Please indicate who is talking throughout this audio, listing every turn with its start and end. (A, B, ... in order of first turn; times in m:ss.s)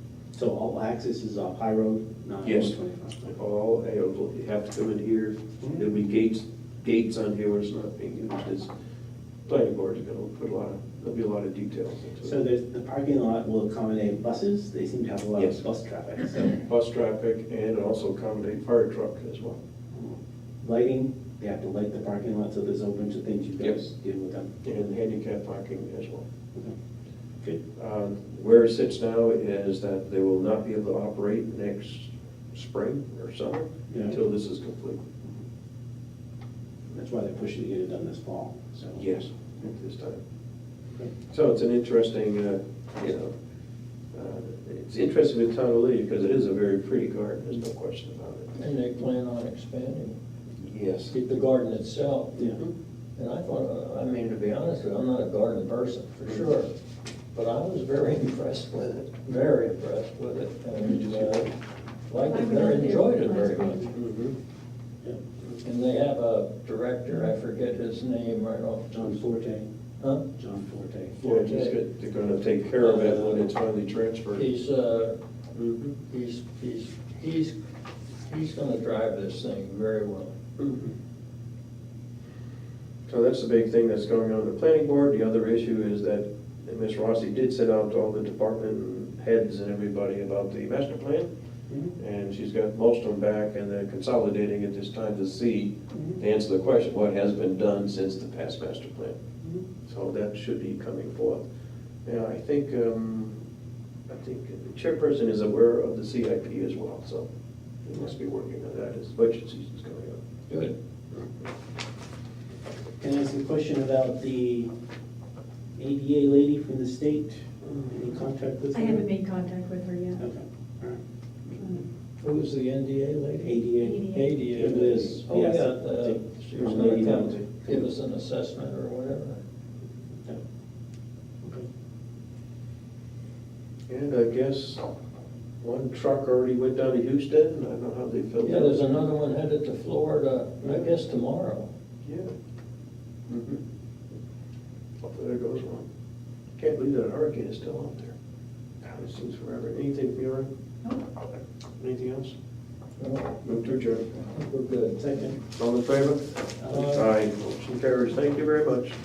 0:00.3-0:03.3 A
0:02.4-0:08.7 B
0:09.5-0:12.4 B
0:12.2-0:16.5 A
0:16.5-0:19.6 B
0:19.9-0:24.5 A
0:24.6-0:26.2 B
0:27.7-0:35.0 B
0:33.9-0:34.2 A
0:36.9-0:39.0 A
0:39.0-0:40.2 B
0:41.3-0:43.3 B
0:44.1-0:48.6 B
0:48.6-0:50.2 C
0:50.6-0:51.1 B
0:51.1-0:52.6 C
0:53.2-0:56.7 C
0:57.3-1:01.5 C
1:00.8-1:01.4 B
1:02.1-1:03.9 C
1:02.2-1:03.9 D
1:03.9-1:04.3 B
1:05.6-1:09.2 C
1:08.9-1:09.6 A
1:10.0-1:10.2 C
1:10.3-1:11.2 A
1:11.2-1:11.8 C
1:11.2-1:14.5 B
1:12.8-1:13.4 C
1:14.3-1:15.2 C
1:15.5-1:16.0 B
1:16.1-1:17.5 C
1:18.3-1:20.3 C
1:20.6-1:20.9 B
1:23.1-1:31.3 B
1:32.0-1:39.2 B
1:39.8-1:41.4 B
1:42.0-1:43.4 B
1:44.1-1:47.3 B
1:47.8-1:50.2 B
1:50.5-1:50.7 C
1:53.0-1:54.7 A
1:55.8-1:59.1 A
1:58.7-2:00.2 D
2:00.2-2:01.0 A
2:01.6-2:01.8 A
2:02.2-2:09.4 C
2:03.4-2:07.9 A
2:03.8-2:04.3 D
2:13.9-2:14.8 B
2:15.6-2:18.9 B
2:18.4-2:21.7 C
2:20.6-2:20.9 B
2:22.0-2:22.3 B
2:23.3-2:23.6 B
2:25.0-2:25.8 B
2:26.6-2:28.1 B
2:28.8-2:30.5 B
2:31.8-2:32.3 B
2:33.0-2:33.4 C
2:33.4-2:34.1 B
2:34.2-2:35.1 C
2:35.0-2:35.4 A
2:35.5-2:39.0 B
2:36.6-2:37.1 C